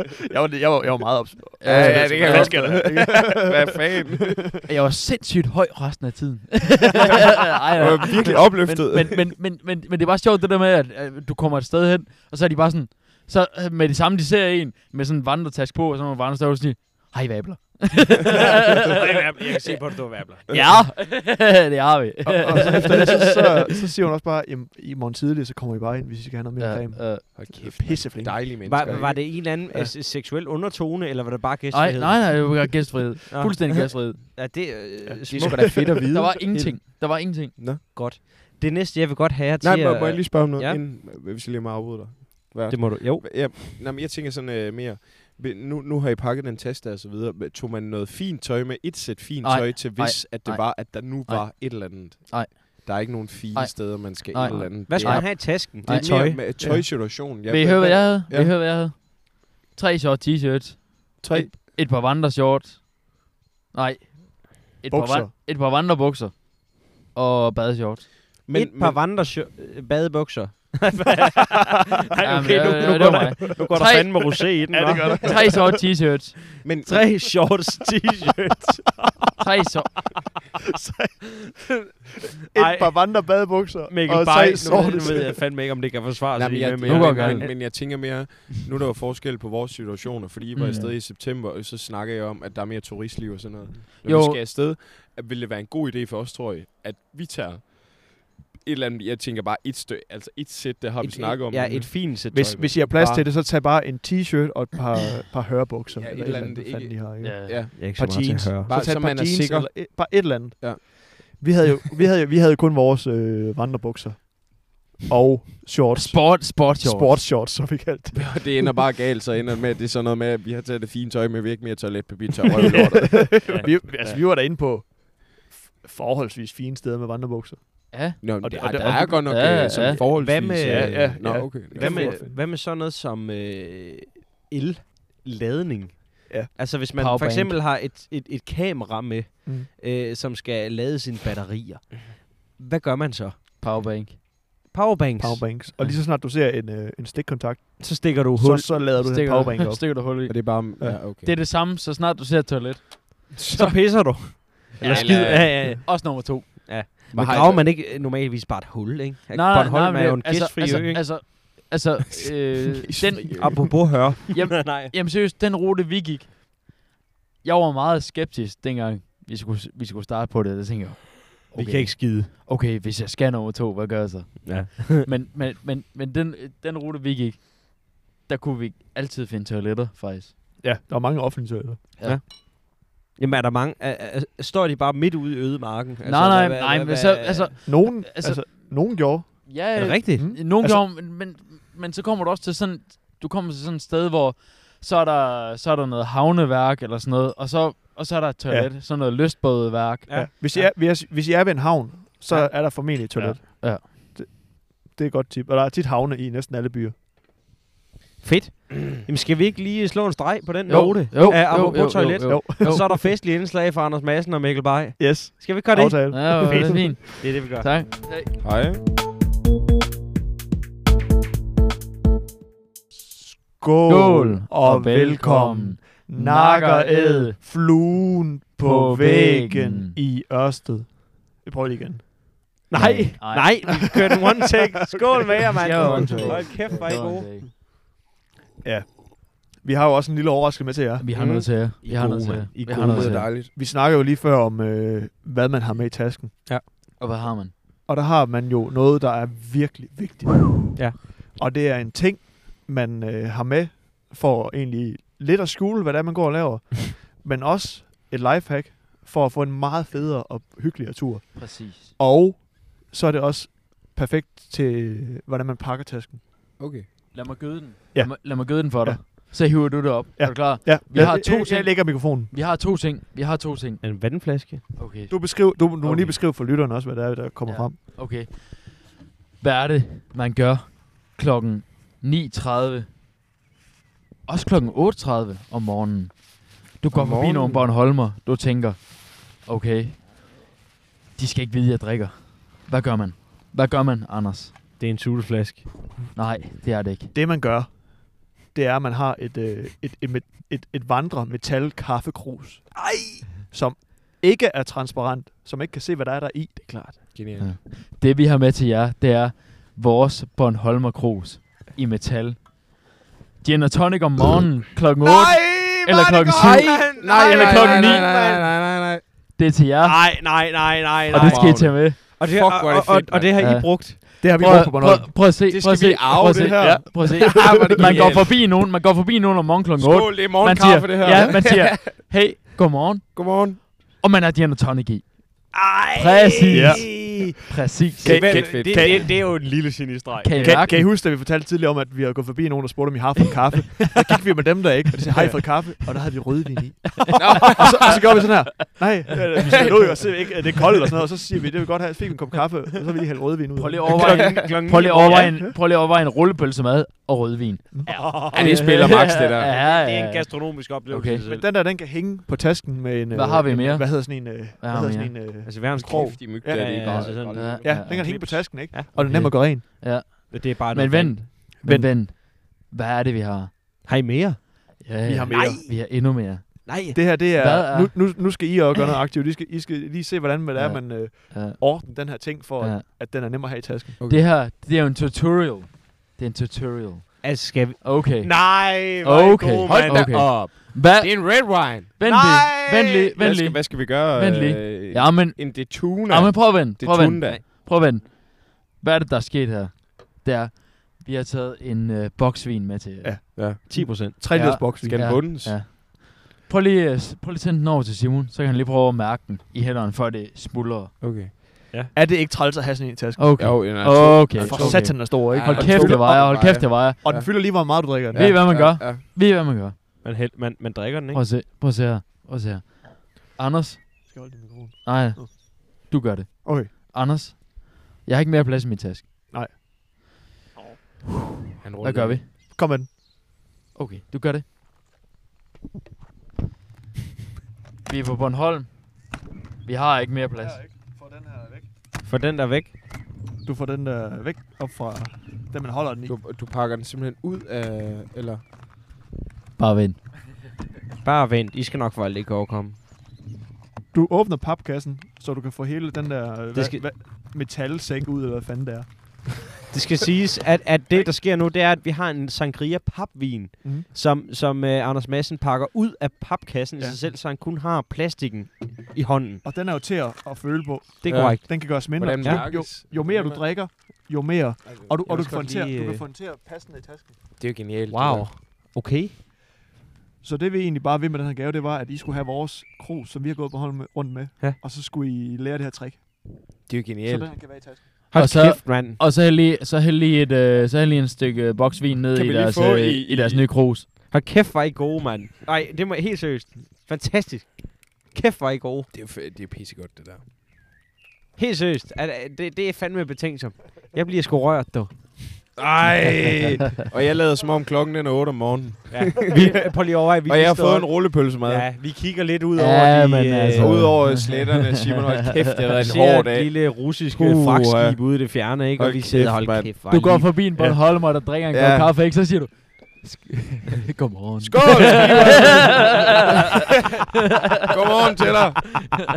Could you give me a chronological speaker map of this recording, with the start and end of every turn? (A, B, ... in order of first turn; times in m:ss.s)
0:00.3-0:04.6 A
0:01.6-0:03.1 B
0:01.6-0:04.6 C
0:04.7-0:18.9 B
0:07.8-0:09.3 C
0:18.3-0:20.7 D
0:20.5-0:20.8 C
0:20.5-0:23.4 B
0:22.2-0:29.1 A
0:26.6-0:27.5 B
0:27.3-0:29.6 C
0:28.6-0:32.8 D
0:31.7-0:34.6 B
0:33.3-0:35.8 D
0:35.1-0:36.3 A
0:35.3-0:36.8 C
0:36.1-0:37.6 B
0:37.6-0:37.8 C
0:37.8-0:40.8 D
0:39.6-0:58.5 C
0:42.7-0:43.6 D
0:49.4-1:03.2 B
0:54.9-0:56.4 D
0:56.6-0:56.9 A
1:01.2-1:01.6 C
1:03.7-1:08.1 B
1:04.9-1:05.3 A
1:08.4-1:09.1 C
1:08.5-1:15.6 D
1:12.2-1:14.4 B
1:14.7-1:15.8 A
1:15.2-1:16.6 B
1:16.6-1:17.4 C
1:16.8-1:19.1 D
1:19.4-1:20.2 B
1:20.8-1:21.4 A
1:22.5-1:25.4 A
1:22.5-1:23.3 D
1:23.9-1:27.7 D
1:26.3-1:43.3 C
1:26.8-1:27.6 B
1:30.6-1:31.0 B
1:34.0-1:34.4 B
1:41.0-1:42.8 D
1:42.3-1:58.8 A
1:45.9-1:50.8 C
1:47.2-1:47.6 B
1:47.8-1:48.7 D
1:56.0-1:57.2 B
1:58.1-2:03.6 C
2:02.7-2:09.6 A
2:03.5-2:04.2 D
2:07.9-2:10.4 B
2:08.2-2:12.2 C
2:10.1-2:23.8 D
2:10.6-2:12.4 A
2:17.0-2:17.6 B
2:23.6-2:24.2 B
2:24.7-2:25.5 D
2:25.2-2:30.3 A
2:27.8-2:28.8 D
2:29.0-2:33.6 B
2:30.2-2:31.4 C
2:33.4-2:34.0 C
2:33.5-2:41.5 D
2:34.8-2:35.7 C
2:34.8-2:35.7 A
2:34.8-2:36.9 B
2:37.1-2:37.7 C
2:39.3-2:43.8 B
2:43.0-2:43.8 C
2:43.4-2:44.9 D
2:44.3-2:46.4 B
2:47.4-3:00.3 B
2:51.5-2:52.3 D
2:54.5-2:55.1 D
3:00.6-3:02.0 A
3:02.0-3:02.2 B
3:02.0-3:07.6 D
3:06.0-3:20.6 B
3:07.6-3:10.9 A
3:09.8-3:10.3 D
3:18.5-3:18.8 A
3:20.1-3:20.7 D
3:20.1-3:27.0 A
3:22.3-3:23.9 B
3:28.2-3:37.7 D
3:30.7-3:33.0 B
3:32.3-3:33.0 A
3:35.0-3:37.0 A
3:36.1-3:38.4 B
3:38.4-3:38.8 C
3:43.1-3:52.4 A
3:43.9-3:47.4 B
3:48.6-3:50.0 B
3:52.7-3:57.4 D
3:52.7-3:53.8 B
3:55.6-3:57.5 B
3:55.6-3:56.9 A
3:55.9-3:56.5 C
3:58.6-4:01.1 A
4:01.0-4:03.4 B
4:01.2-4:03.3 D
4:01.2-4:03.5 C
4:03.4-4:06.5 A
4:07.0-4:07.5 B
4:07.9-4:26.2 A
4:21.4-4:21.9 B
4:26.6-4:26.9 C
4:27.1-4:36.2 B
4:27.9-4:32.4 A
4:33.8-4:34.8 D
4:35.1-4:37.8 A
4:37.5-4:42.9 B
4:44.3-4:50.1 B
4:46.8-4:47.7 C
4:51.2-4:54.5 B
4:54.8-4:55.7 D
4:56.2-4:57.1 B
4:57.1-5:07.1 A
5:02.9-5:03.2 D
5:07.1-5:07.6 C
5:07.4-5:12.9 B
5:13.4-5:18.1 B
5:15.2-5:19.0 C
5:15.5-5:18.5 D
5:19.4-5:20.3 B
5:19.8-5:24.0 D
5:21.1-5:22.0 B
5:21.2-5:23.4 C
5:23.4-5:38.6 B
5:24.2-5:25.3 A
5:25.4-5:28.4 C
5:26.4-5:28.1 A
5:29.8-5:32.2 C
5:33.1-5:33.6 C
5:35.5-5:40.8 D
5:36.5-5:37.0 A
5:38.0-5:39.3 A
5:38.0-5:39.2 C
5:40.2-5:40.9 B
5:40.4-5:54.2 A
5:47.2-5:48.0 C
5:49.5-5:49.7 C
5:53.6-6:01.2 B
5:53.9-5:55.4 D
5:54.1-5:54.5 C
5:55.2-5:55.6 A
5:57.7-5:58.1 A
5:57.8-6:01.5 D
5:58.3-5:59.6 C
6:01.3-6:09.6 A
6:03.1-6:05.4 B
6:05.4-6:09.3 D
6:05.8-6:07.8 C
6:07.3-6:13.5 B
6:10.3-6:11.3 D
6:11.6-6:12.0 A
6:13.9-6:17.0 D
6:14.8-6:18.2 B
6:15.0-6:15.8 A
6:16.9-6:24.0 A
6:20.6-6:22.9 B
6:24.0-6:24.3 C
6:24.1-6:43.4 B
6:27.2-6:30.5 D
6:29.6-6:32.1 C
6:32.0-6:32.7 D
6:32.6-6:37.4 C
6:43.0-6:45.3 A
6:43.4-6:44.2 C
6:43.7-6:44.1 D
6:44.3-6:51.0 B
6:44.8-6:45.7 C
6:51.0-6:51.3 C
6:51.9-6:58.4 A
6:53.2-6:57.0 B
6:53.4-6:59.0 C
6:55.4-6:55.6 D
6:58.1-6:59.8 B
7:00.0-7:01.2 D
7:01.1-7:04.3 B
7:04.1-7:05.3 A
7:04.8-7:09.0 B
7:06.4-7:06.7 A
7:11.6-7:12.3 C
7:11.8-7:12.3 B
7:12.3-7:12.9 A
7:13.8-7:14.4 B
7:17.9-7:20.6 B
7:20.5-7:21.6 A
7:22.0-7:22.7 D
7:23.4-7:26.2 A
7:26.1-7:28.4 C
7:29.6-7:30.0 B
7:31.0-7:32.8 D
7:33.9-7:39.3 A
7:36.5-7:36.9 D
7:39.7-7:49.4 D
7:43.6-7:43.9 A
7:49.4-7:57.3 A
7:51.0-7:52.5 D
7:51.1-7:53.4 C
7:54.7-7:55.2 C
7:55.1-7:56.0 D
7:57.4-7:58.3 C
7:57.9-7:59.1 D
8:00.2-8:06.5 A
8:06.7-8:07.6 C
8:07.0-8:07.9 A
8:08.1-8:09.0 D
8:08.2-8:13.9 B
8:08.2-8:08.6 C
8:12.1-8:13.6 C
8:14.1-8:18.9 D
8:18.9-8:20.2 C
8:21.4-8:25.4 D
8:25.6-8:29.6 C
8:28.9-8:34.0 D
8:30.2-8:31.7 C
8:32.6-8:36.0 B
8:33.5-8:40.0 C
8:35.8-8:40.3 D
8:39.9-8:46.2 B
8:41.5-8:42.0 C
8:44.4-8:46.2 C
8:45.4-8:45.8 D
8:47.7-8:48.8 C